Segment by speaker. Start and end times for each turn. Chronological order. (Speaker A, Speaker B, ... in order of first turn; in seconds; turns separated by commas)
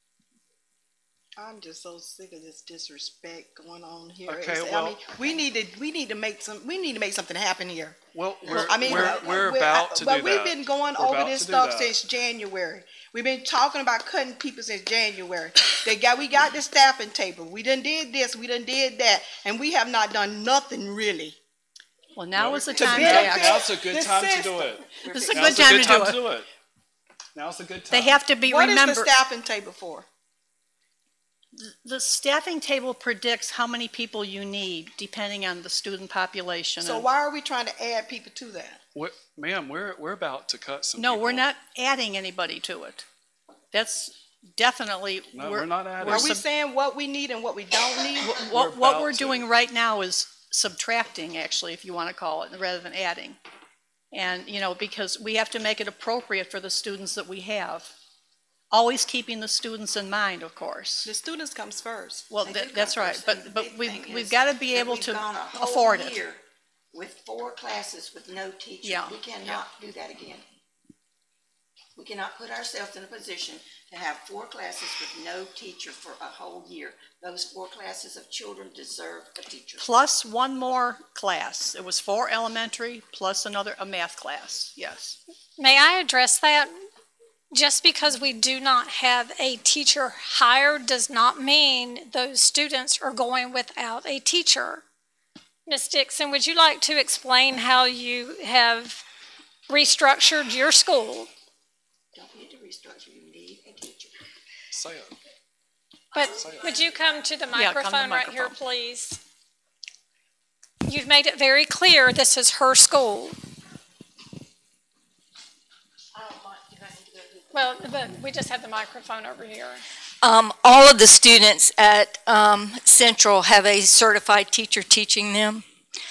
Speaker A: 1.4-21.4, Speaker B: 4.3-5.0, Speaker B: 8.1-11.9, Speaker C: 22.1-23.5, Speaker B: 22.3-26.5, Speaker A: 22.8-24.8, Speaker D: 25.0-26.0, Speaker C: 25.1-26.2, Speaker B: 27.3-28.3, Speaker C: 27.9-29.1, Speaker A: 28.4-30.1, Speaker C: 31.5-37.1, Speaker A: 36.8-38.8, Speaker B: 38.9-41.5, Speaker C: 41.0-43.0, Speaker C: 43.7-46.4, Speaker B: 45.3-46.4, Speaker A: 46.0-48.4, Speaker C: 48.2-53.4, Speaker B: 48.5-49.5, Speaker C: 54.1-57.9, Speaker C: 58.7-61.1, Speaker A: 61.0-62.3, Speaker C: 62.3-66.2, Speaker D: 62.4-70.4, Speaker C: 68.8-69.2, Speaker D: 72.0-79.9, Speaker E: 73.7-74.0, Speaker C: 79.8-85.2, Speaker F: 85.6-86.7, Speaker F: 87.5-94.8, Speaker F: 95.7-99.0, Speaker F: 99.7-101.3, Speaker D: 102.1-104.1, Speaker B: 104.7-105.2, Speaker F: 106.1-109.2, Speaker B: 106.3-106.7, Speaker C: 107.5-108.6, Speaker F: 110.8-113.4, Speaker E: 116.1-117.4, Speaker F: 117.5-119.8, Speaker E: 120.2-125.6